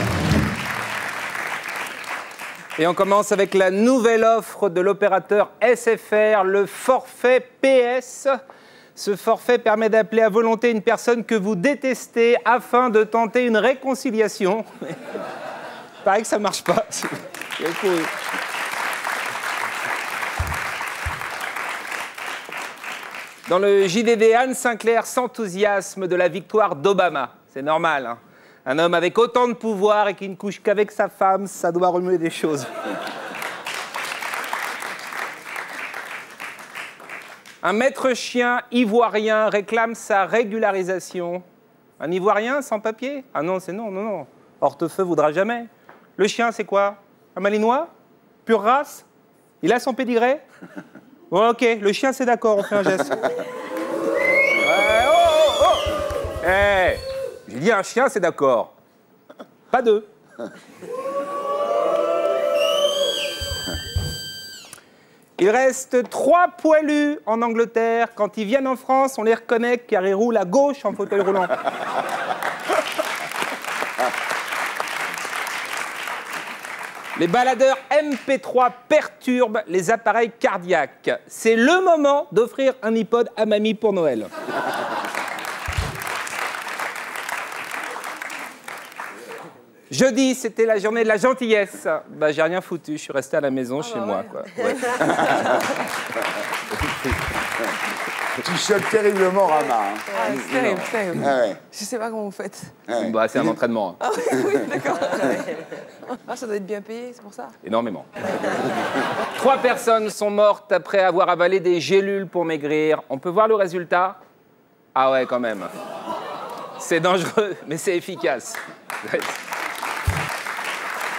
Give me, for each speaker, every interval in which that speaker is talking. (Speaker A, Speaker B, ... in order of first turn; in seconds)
Speaker A: 2.8-8.4, 8.9-15.0, 16.0-18.1, 23.4-32.7, 37.6-41.4, 42.0-47.9, 48.4-49.0, 49.6-50.4, 51.3-53.2, 54.6-58.7, 59.7-60.1, 65.4-71.5, 77.2-84.3, 89.9-95.5, 102.9-104.0, 107.6-108.1, 109.3-114.2, 114.9-115.7, 116.8-119.4
Speaker B: 93.8-94.4, 100.1-102.7, 104.0-105.5, 106.1-107.5
Speaker C: 98.4-101.6, 102.9-103.6